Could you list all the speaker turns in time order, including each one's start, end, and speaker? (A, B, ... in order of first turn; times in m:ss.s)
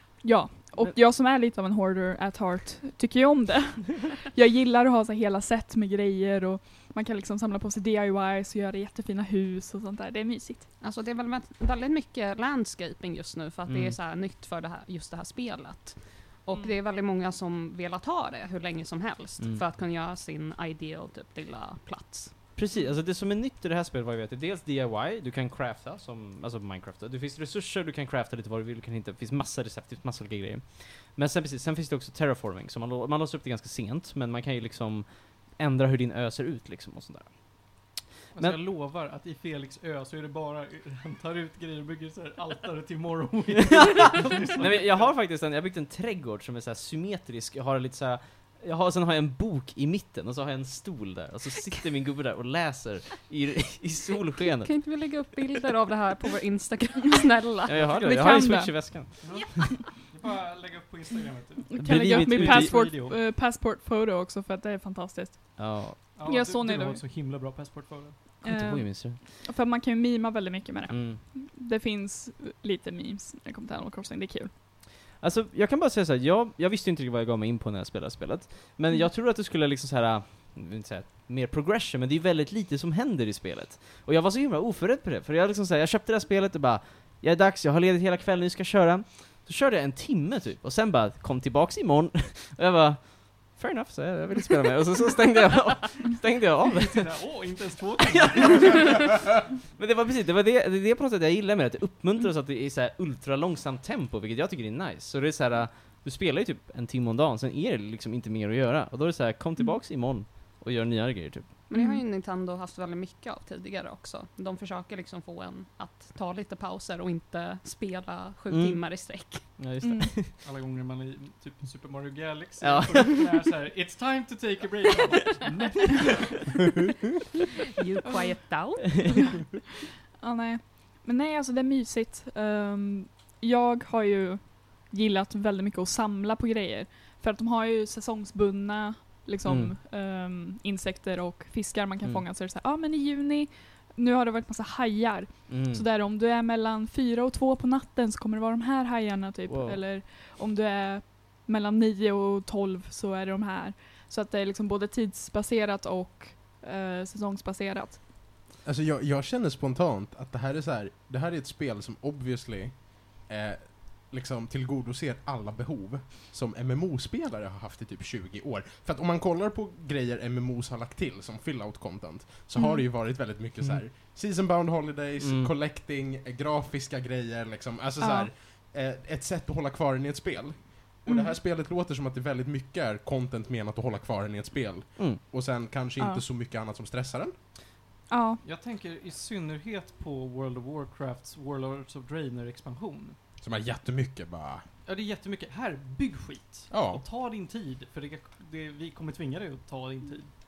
0:00.2-0:10.7 A
0:10.8-0:22.3 B
0:13.7-0:14.0 C
0:22.6-0:38.6 C
0:38.3-0:45.1 D
0:43.6-0:54.7 C
0:54.6-0:57.9 B
0:57.7-0:59.7 C
0:57.9-0:59.0 A
0:59.2-1:03.2 D
1:01.7-1:07.0 A
1:01.8-1:02.8 C
1:05.6-1:06.0 C
1:06.2-1:08.2 D
1:08.4-1:09.2 C
1:08.4-1:14.5 A
1:10.9-1:11.2 C
1:15.2-1:37.2 C
1:36.8-1:39.1 D
1:38.1-1:39.2 C
1:39.8-1:51.5 C
1:51.7-1:59.6 B
1:51.7-1:52.0 A
1:58.5-1:58.8 C
1:59.4-2:00.3 C
1:59.8-2:00.2 A
2:00.3-2:06.6 D
2:02.6-2:03.2 C
2:07.8-2:09.2 B
2:08.0-2:08.4 A
2:10.2-2:38.0 A
2:19.4-2:19.8 C
2:25.5-2:25.8 C
2:29.5-2:29.8 C
2:38.6-3:07.3 E
2:52.6-2:52.8 A
2:55.2-2:55.5 C
2:58.0-2:58.3 A
3:01.1-3:01.4 A
3:08.1-3:08.4 A
3:08.4-3:13.2 D
3:13.4-3:14.6 E
3:14.8-3:20.3 D
3:16.7-3:17.0 E